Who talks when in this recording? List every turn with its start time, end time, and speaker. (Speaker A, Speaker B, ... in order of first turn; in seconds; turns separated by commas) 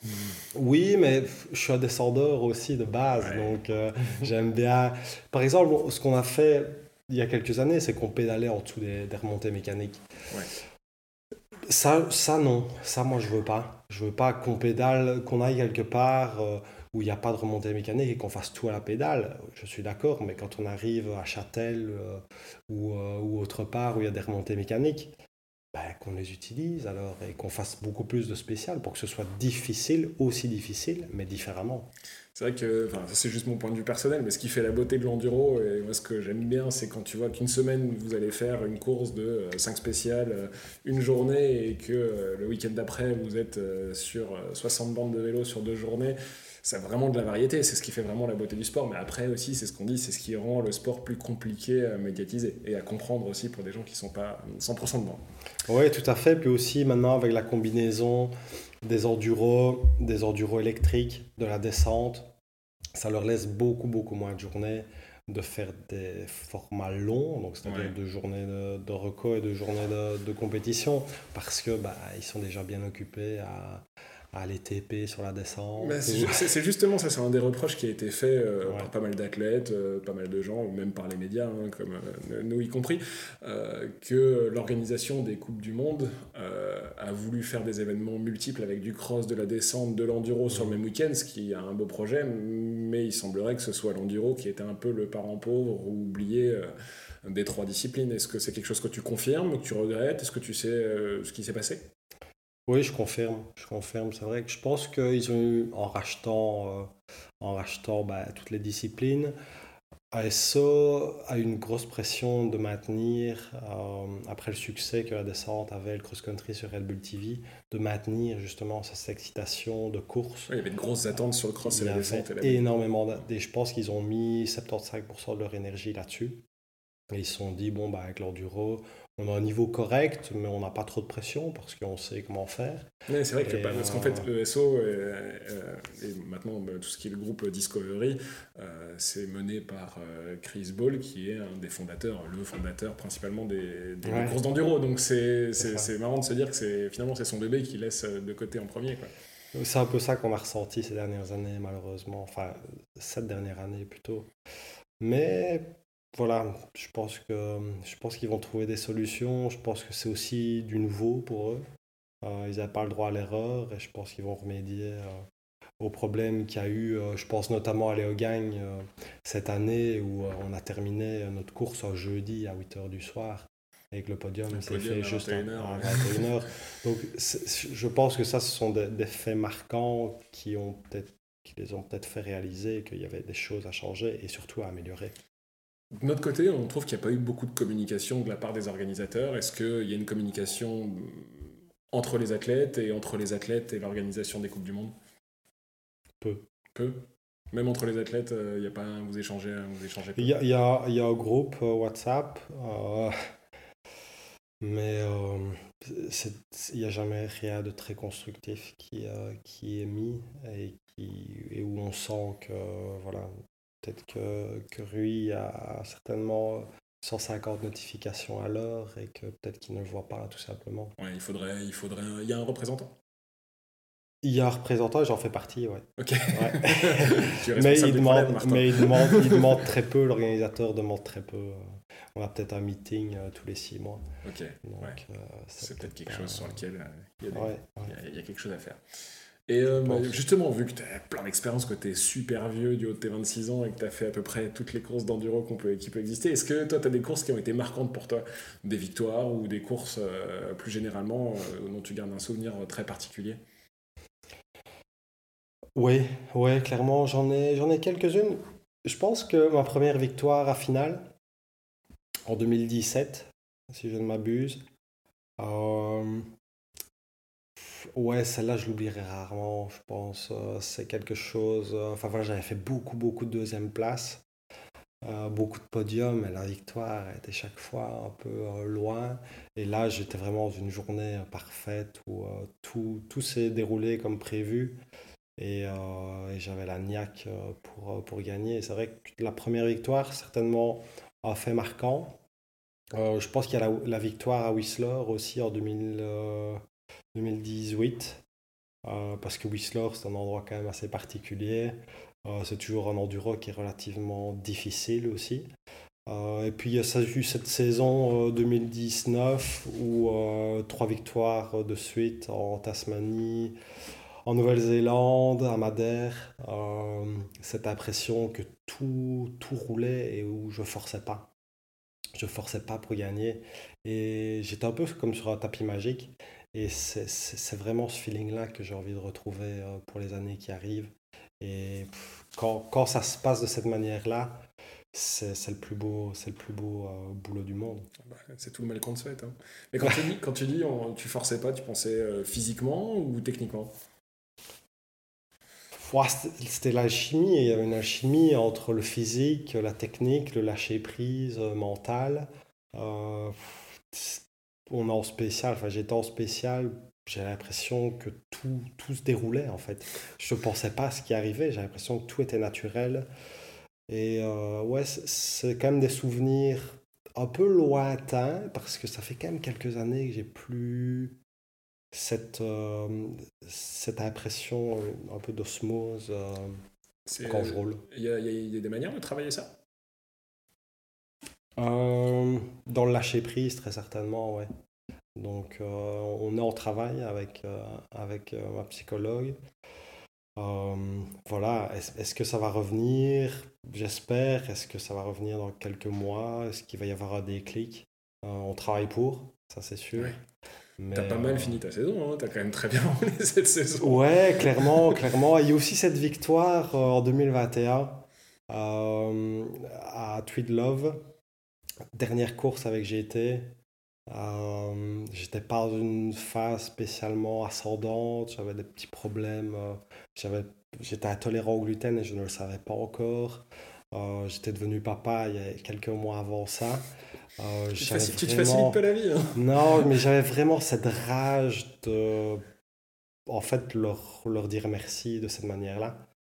Speaker A: 0.5-10.0, Speaker B: 3.2-4.3, Speaker A: 11.7-25.1, Speaker A: 25.7-31.9, Speaker B: 32.4-55.2, Speaker A: 55.7-62.3, Speaker A: 62.9-76.5, Speaker B: 67.7-67.9, Speaker B: 75.8-96.7, Speaker B: 97.2-101.9, Speaker A: 102.7-109.3, Speaker A: 110.1-120.5, Speaker B: 120.5-122.7, Speaker A: 121.6-126.4, Speaker A: 127.1-132.9, Speaker B: 133.1-149.1, Speaker A: 133.4-134.3, Speaker A: 144.1-144.4, Speaker A: 149.5-154.3, Speaker A: 155.0-161.6, Speaker A: 162.2-165.2, Speaker A: 165.8-185.2, Speaker B: 174.5-176.2, Speaker B: 185.9-194.9, Speaker B: 196.7-200.4, Speaker A: 200.2-203.3, Speaker A: 204.6-220.9, Speaker B: 221.0-222.9, Speaker A: 224.2-234.0, Speaker B: 226.0-229.7, Speaker B: 234.2-235.0, Speaker A: 234.6-236.6, Speaker B: 235.6-238.8, Speaker A: 237.3-237.9, Speaker B: 239.5-253.4, Speaker A: 239.8-240.2, Speaker A: 255.8-261.1, Speaker A: 262.3-264.6, Speaker A: 265.4-266.3, Speaker A: 267.6-274.2, Speaker A: 275.0-284.8, Speaker A: 285.4-292.2, Speaker A: 292.9-296.6, Speaker A: 297.1-298.2, Speaker A: 298.8-305.5, Speaker A: 306.1-313.6, Speaker A: 314.3-321.3, Speaker A: 322.1-337.9, Speaker B: 338.1-343.7, Speaker A: 345.7-363.1, Speaker A: 363.9-371.2, Speaker A: 371.9-376.6, Speaker B: 377.1-379.5, Speaker A: 377.2-377.8, Speaker A: 381.6-384.5, Speaker A: 385.2-389.4, Speaker A: 390.4-400.2, Speaker A: 400.8-401.6, Speaker B: 400.9-404.9, Speaker A: 403.8-411.0, Speaker A: 411.9-413.5, Speaker A: 414.1-426.9, Speaker A: 427.4-428.8, Speaker B: 427.8-429.6, Speaker A: 429.3-432.5, Speaker A: 433.3-436.1